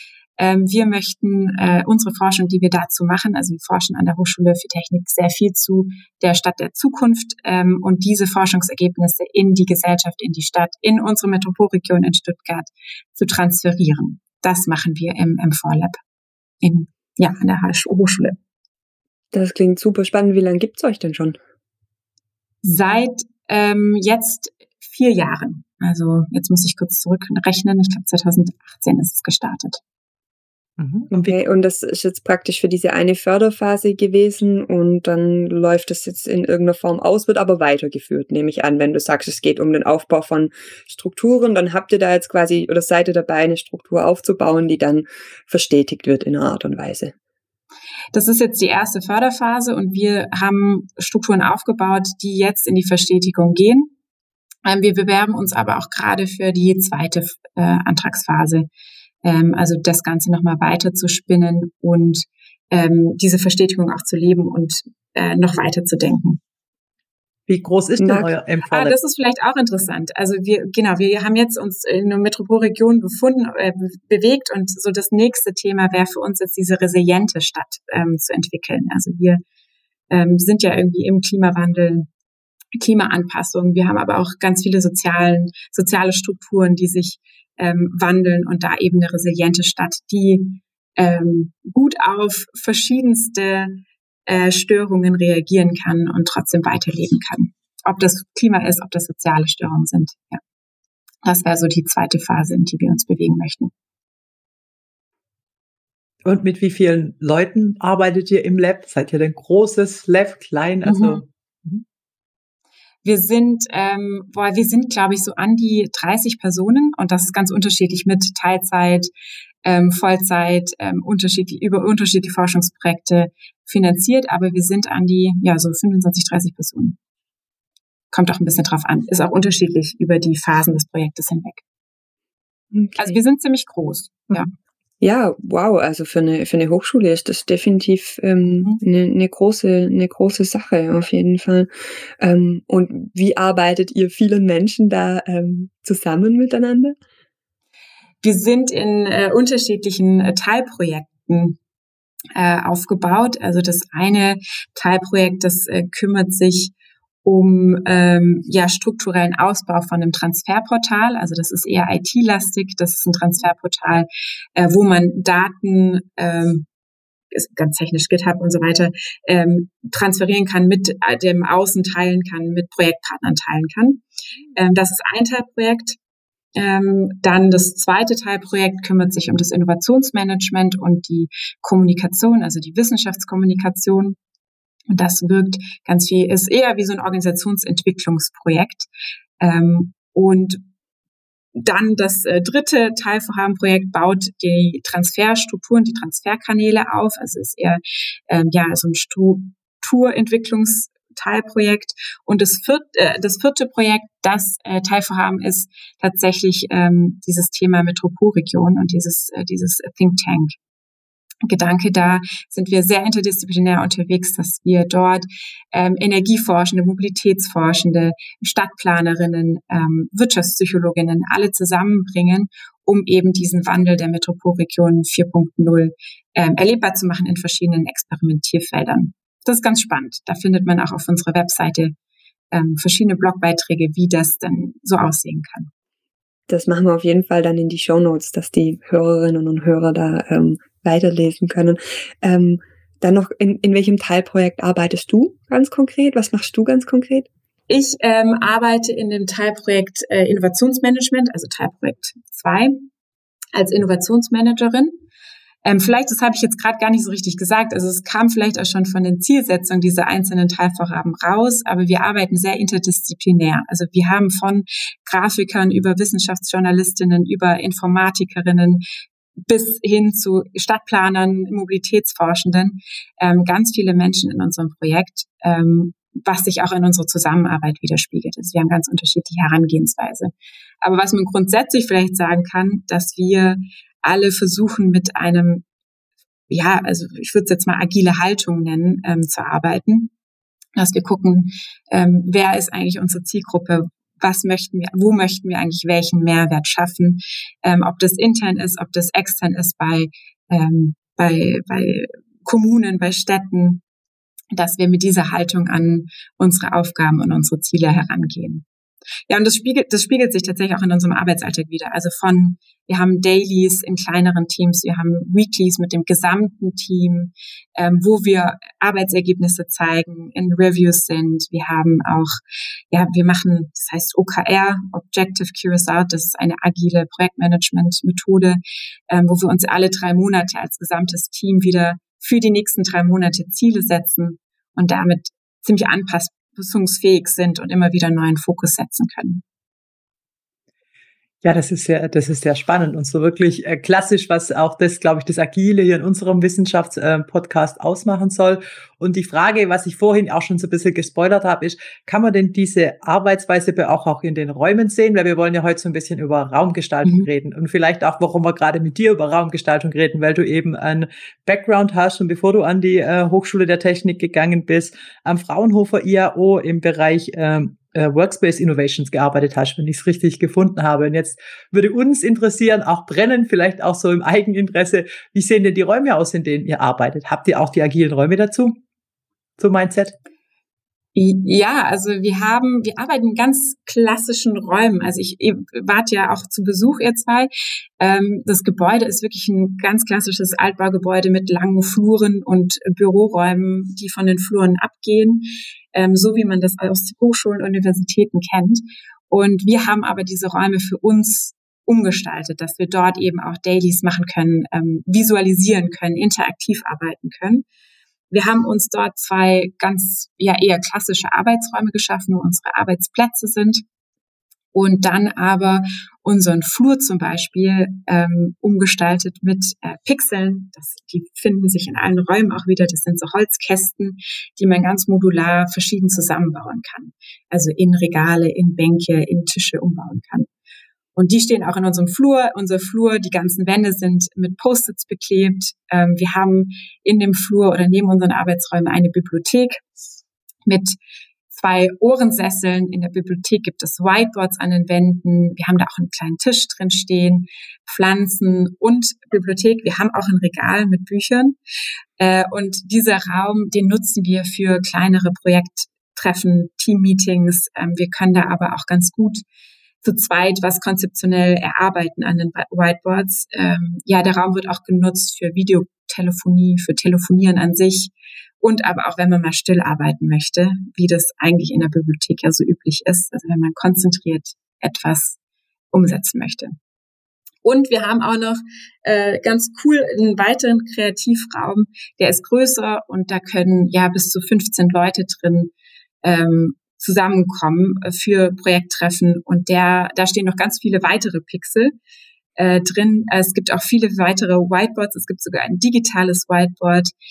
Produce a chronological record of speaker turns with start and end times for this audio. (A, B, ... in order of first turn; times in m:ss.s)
0:00.4-0:16.0 A
0:16.6-0:18.4 A
0:19.3-0:21.4 B
0:22.6-0:29.8 A
0:30.8-0:31.4 C
0:31.1-0:47.1 B
0:48.1-0:53.9 A
0:54.6-0:58.7 A
0:59.2-1:06.4 A
1:07.5-1:09.0 C
1:08.0-1:08.3 B
1:08.7-1:19.4 A
1:20.1-1:22.1 A
1:22.8-1:40.4 A
1:41.2-1:43.7 A
1:46.2-1:51.8 C
1:50.8-1:51.2 A
1:53.0-1:59.1 A
1:59.6-2:07.0 A
2:08.1-2:11.6 A
2:12.7-2:13.2 B
2:13.0-2:14.5 A
2:15.0-2:27.0 B
2:28.2-2:31.6 A
2:32.4-2:36.7 A
2:37.2-2:46.7 A
2:47.3-2:56.0 A
2:56.6-3:04.2 A
3:04.9-3:08.9 A
3:09.4-3:10.6 A
3:11.6-3:30.6 A
3:31.4-3:51.9 A
3:52.5-3:55.7 A
3:56.5-4:07.3 B
4:07.7-4:12.9 A
4:13.5-4:15.0 A
4:15.6-4:28.8 A
4:29.5-4:45.6 A
4:46.5-4:50.1 A
4:50.8-5:03.8 A
5:04.5-5:08.6 A
5:09.3-5:22.4 A
5:22.9-5:39.4 A
5:41.4-6:18.8 C
6:19.6-6:20.1 C
6:21.1-6:47.6 A
6:48.3-6:53.8 A
6:54.7-7:10.5 A
7:11.2-7:19.8 A
7:20.7-7:21.0 A
7:21.5-7:31.6 A
7:32.2-7:39.4 A
7:40.0-7:55.4 A
7:55.9-7:56.8 A
7:57.6-8:05.7 A
8:06.2-8:11.9 A
8:12.6-8:17.1 A